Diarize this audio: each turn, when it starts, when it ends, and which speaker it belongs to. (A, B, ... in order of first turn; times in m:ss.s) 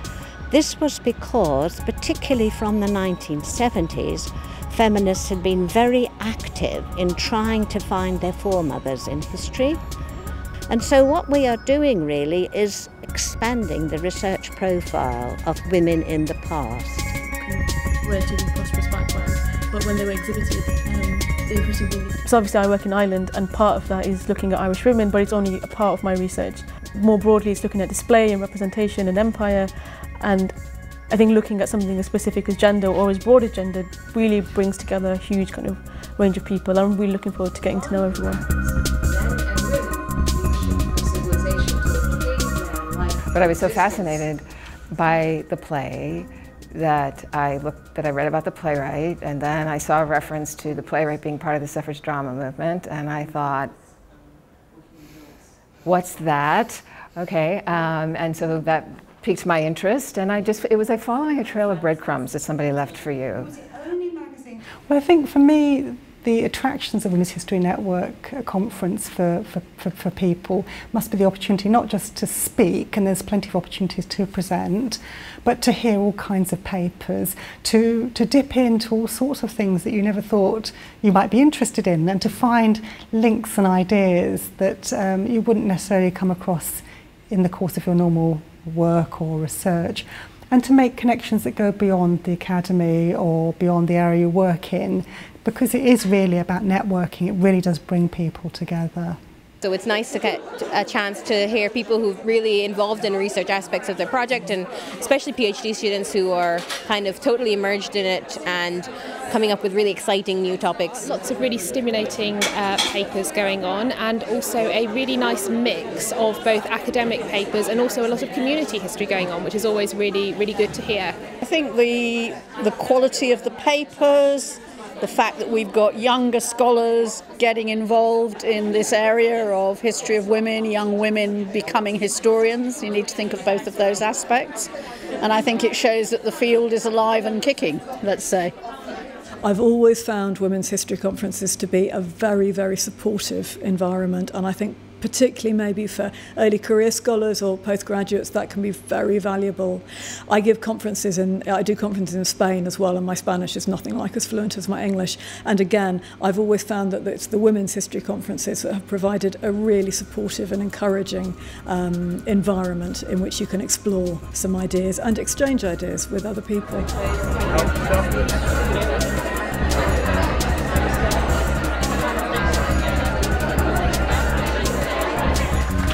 0:00.5-0:09.8 A
0:10.7-0:17.1 A
0:17.4-0:38.5 B
0:38.5-0:44.2 C
0:43.2-0:53.7 D
0:55.8-1:03.5 D
1:03.4-1:39.2 E
1:39.6-1:51.1 C
1:51.0-2:01.2 F
2:01.4-2:14.7 G
2:15.2-2:18.5 G
2:19.4-2:46.9 H